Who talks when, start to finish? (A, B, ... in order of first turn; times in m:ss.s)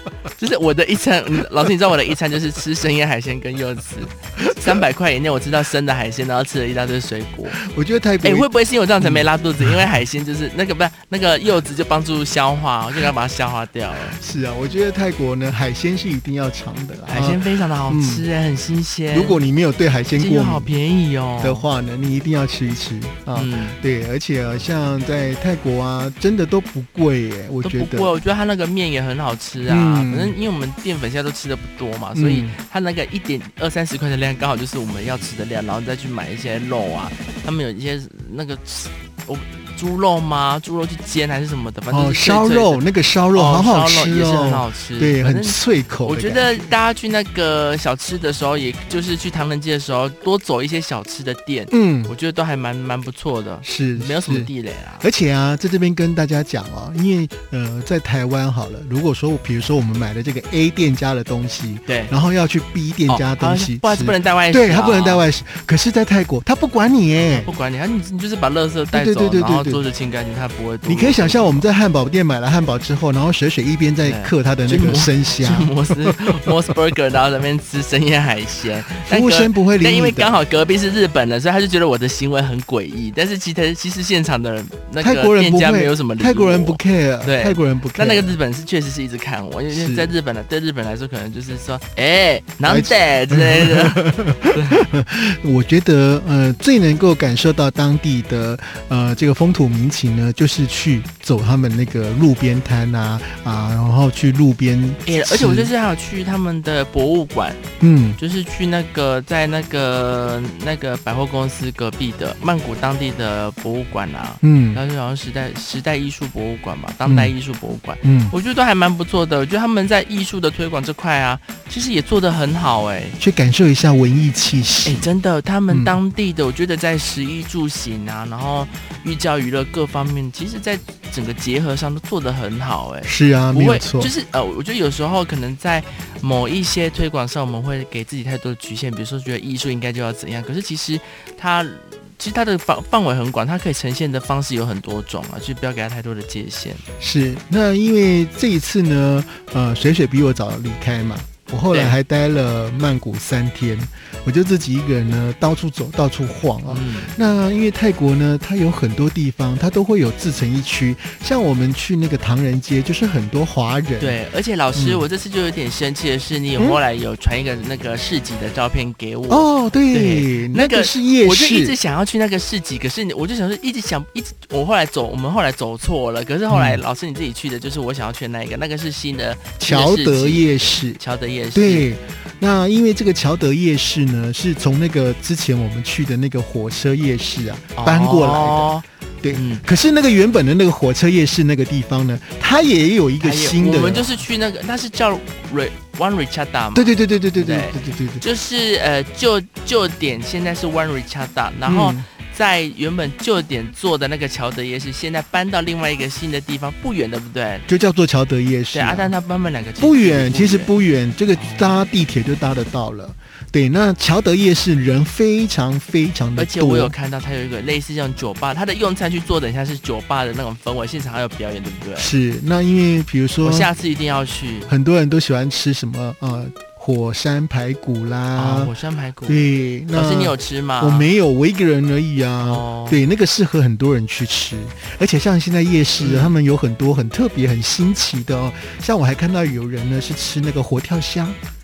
0:00.4-0:07.6 A
0:04.4-0:04.8 B
0:07.5-0:08.5 B
0:08.2-0:14.2 A
0:09.0-0:09.9 B
0:14.1-0:18.2 B
0:17.1-0:19.4 A
0:19.1-0:20.7 B
0:20.2-0:21.7 A
0:21.4-0:28.1 B
0:23.3-0:23.8 A
0:27.6-0:55.0 A
0:29.6-0:30.3 B
0:32.1-0:32.6 B
0:41.9-0:46.7 B
0:51.7-0:52.1 B
0:53.6-1:07.5 B
1:01.9-1:02.1 A
1:03.1-1:05.3 A
1:07.2-1:11.7 A
1:08.9-1:09.8 B
1:10.8-1:15.8 B
1:14.0-1:34.9 A
1:19.0-1:20.4 B
1:25.0-1:28.4 B
1:29.7-1:30.1 B
1:32.6-1:45.7 B
1:45.0-1:47.6 A
1:47.8-1:48.2 B
1:48.2-2:03.2 A
1:54.4-1:54.8 B
1:57.0-1:57.3 B
1:58.0-1:58.3 B
2:03.2-2:05.1 B
2:04.8-2:26.8 A
2:05.7-2:06.0 B
2:13.0-2:14.1 B
2:27.0-2:44.2 B
2:31.7-2:32.0 A
2:36.7-2:37.1 A
2:44.0-3:01.9 A
2:44.7-2:45.0 B
2:49.3-2:51.8 B
2:56.5-2:56.8 B
2:59.6-3:01.0 B
3:01.5-3:14.2 B
3:07.8-3:09.6 A
3:13.2-3:27.7 A
3:16.7-3:18.2 B
3:21.6-3:22.0 B
3:27.7-3:29.1 B
3:28.7-3:30.7 A
3:29.8-3:36.9 B
3:31.3-3:31.8 A
3:36.4-3:42.1 A
3:42.0-3:43.7 B
3:43.4-3:44.7 A
3:44.7-3:48.7 B
3:48.3-3:51.1 A
3:49.3-4:01.4 B
3:52.4-3:53.0 A
3:56.0-3:56.3 A